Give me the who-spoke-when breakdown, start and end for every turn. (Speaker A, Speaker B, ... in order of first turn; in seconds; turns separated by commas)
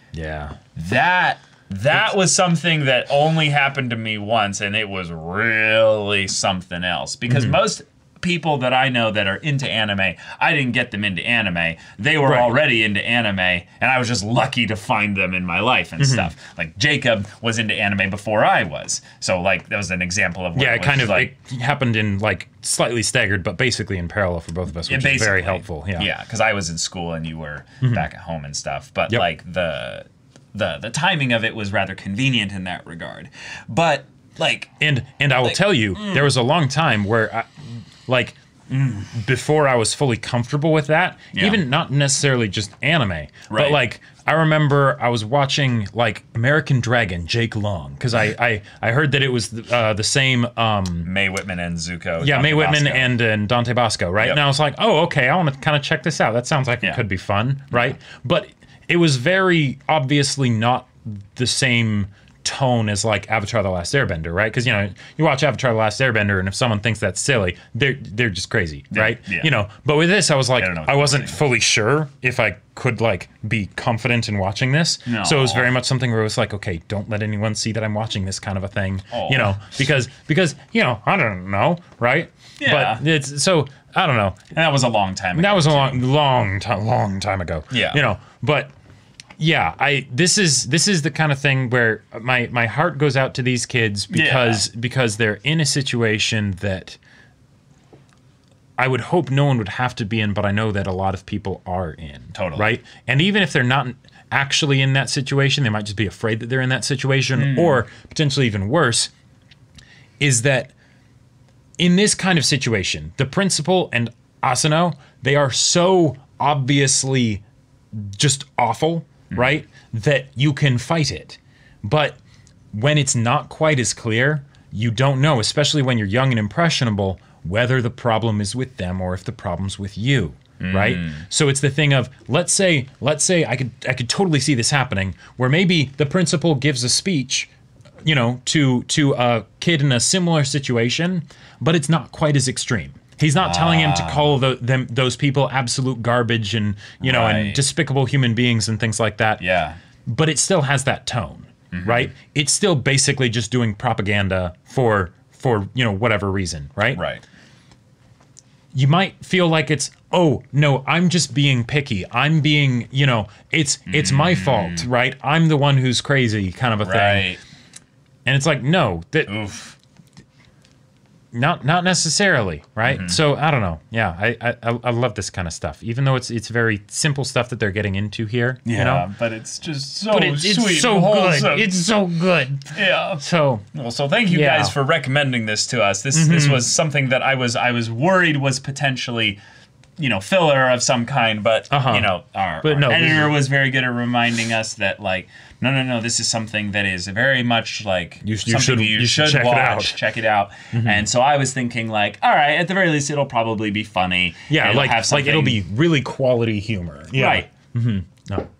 Speaker A: 0.1-0.6, Speaker B: 0.8-21.3, Speaker A: 7.2-7.6, Speaker A: 12.2-12.6, Speaker A: 16.0-16.3, Speaker A: 20.5-26.1, Speaker B: 24.9-34.7, Speaker A: 34.8-51.1, Speaker B: 35.4-36.3, Speaker B: 41.3-41.6, Speaker B: 43.5-43.8, Speaker B: 51.0-53.1, Speaker A: 52.2-84.4, Speaker B: 68.9-69.5, Speaker B: 70.6-71.4, Speaker B: 75.1-75.7, Speaker B: 79.1-79.6, Speaker B: 82.6-83.0, Speaker B: 84.5-86.0, Speaker A: 85.3-88.7, Speaker B: 87.7-88.0, Speaker A: 89.4-97.0, Speaker B: 94.1-94.6, Speaker A: 98.8-109.1, Speaker B: 102.3-102.7, Speaker B: 107.3-107.8, Speaker A: 110.2-110.7, Speaker A: 111.8-122.2, Speaker B: 119.3-119.6, Speaker A: 122.7-137.5, Speaker B: 130.6-131.2, Speaker A: 138.0-149.4, Speaker B: 143.4-144.3, Speaker B: 147.0-147.6, Speaker B: 149.4-149.8, Speaker A: 150.1-157.0, Speaker B: 151.7-152.1, Speaker B: 156.9-157.2, Speaker A: 158.7-167.4, Speaker B: 163.9-164.9, Speaker B: 166.8-167.4, Speaker A: 168.2-169.3, Speaker B: 169.3-169.8, Speaker A: 171.3-179.1, Speaker B: 172.8-173.2, Speaker B: 178.6-181.8, Speaker A: 180.1-183.6, Speaker B: 182.7-189.4, Speaker A: 184.3-184.7, Speaker A: 186.1-186.7, Speaker B: 190.0-205.6, Speaker A: 191.7-193.4, Speaker A: 198.2-200.0, Speaker A: 200.7-201.0, Speaker A: 204.5-208.5, Speaker B: 207.1-207.5